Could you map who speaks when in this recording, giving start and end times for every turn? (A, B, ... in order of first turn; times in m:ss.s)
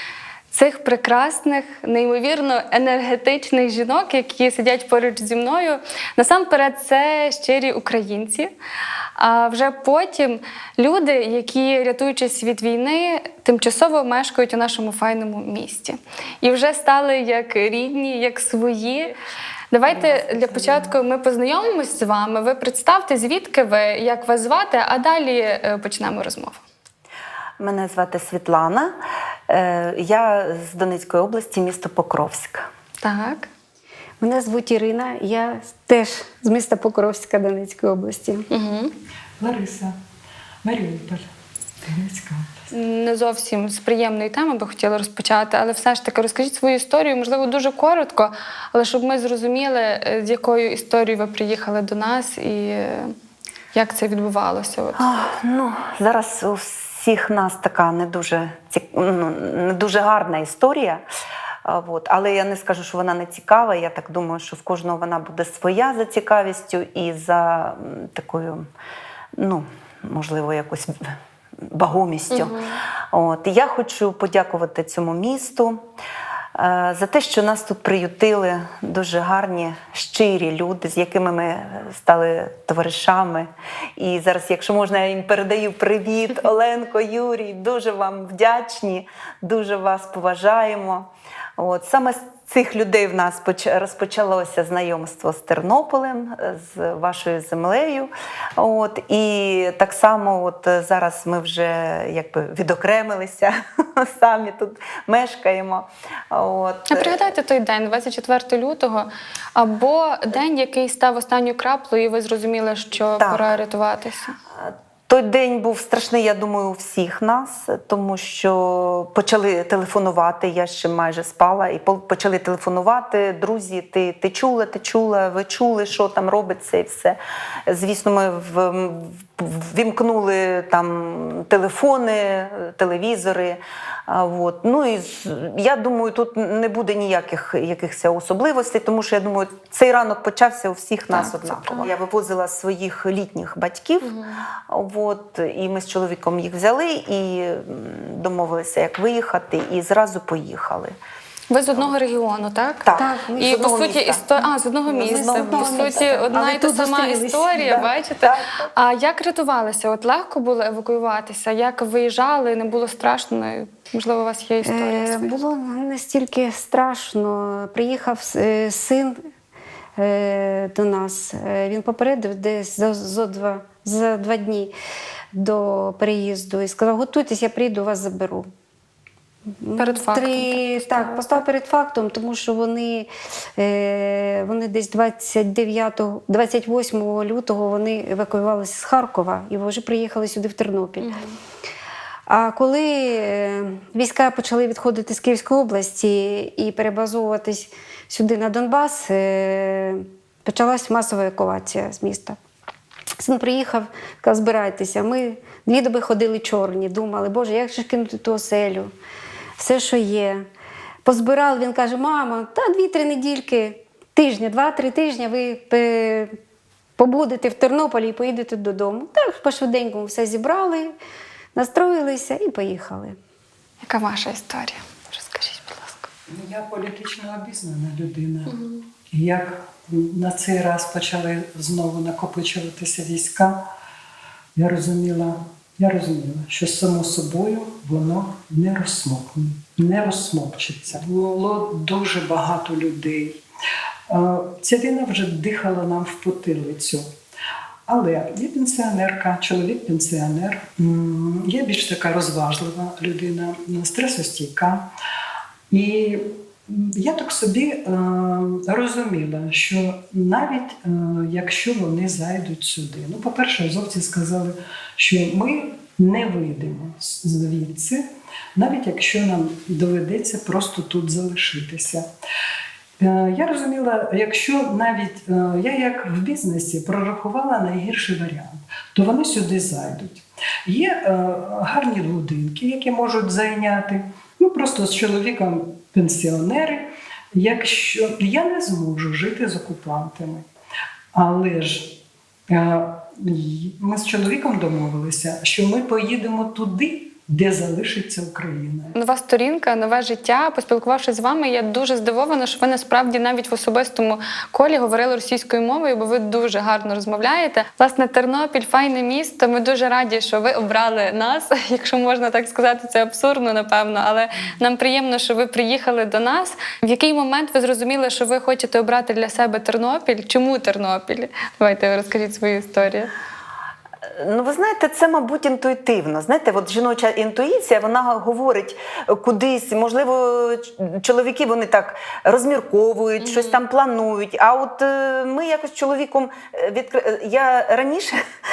0:00.5-0:08.5 A
0:09.2-0:19.1 A
0:19.7-0:26.6 A
0:19.9-0:20.8 B
0:27.6-0:28.9 B
0:29.5-0:32.7 B
0:33.0-0:33.5 A
0:34.2-0:38.5 C
0:38.5-0:38.9 A
0:39.4-0:40.0 D
0:40.6-0:41.3 D
0:41.8-0:42.6 D
0:42.7-0:53.1 A
0:53.7-0:55.0 A
0:55.0-1:01.0 B
1:01.6-1:08.6 B
1:09.4-1:11.2 B
1:11.7-1:12.6 B
1:12.3-1:12.8 A
1:13.1-1:15.8 B
1:16.6-1:47.2 B
1:46.9-1:54.4 A
1:53.2-1:53.5 B
1:54.6-2:07.2 B
2:07.7-2:24.2 B
2:21.1-2:21.9 A
2:24.0-2:24.4 A
2:24.7-2:30.9 B
2:31.5-2:45.3 A
2:32.8-2:34.2 B
2:32.9-2:33.6 C
2:34.9-2:35.9 B
2:34.9-2:37.9 C
2:38.2-2:38.5 B
2:44.6-2:49.2 C
2:50.0-2:54.7 C
2:55.3-2:58.5 C
2:59.6-3:11.1 C
2:59.8-3:01.4 A
3:11.0-3:11.4 A
3:12.3-3:22.4 C
3:23.2-3:28.9 C
3:29.6-3:30.4 C
3:31.0-3:36.3 C
3:37.0-3:40.9 C
3:41.6-3:43.2 C
3:43.8-3:46.1 A
3:46.3-3:48.5 D
3:48.5-3:48.8 A
3:49.1-3:53.6 D
3:54.6-4:03.4 D
4:04.1-4:07.0 D
4:07.9-4:14.9 D
4:15.7-4:28.0 D
4:28.6-4:32.0 D
4:33.0-4:50.5 D
4:51.1-4:59.0 D
4:59.0-5:23.1 A
5:24.2-5:38.2 B
5:33.2-5:33.6 A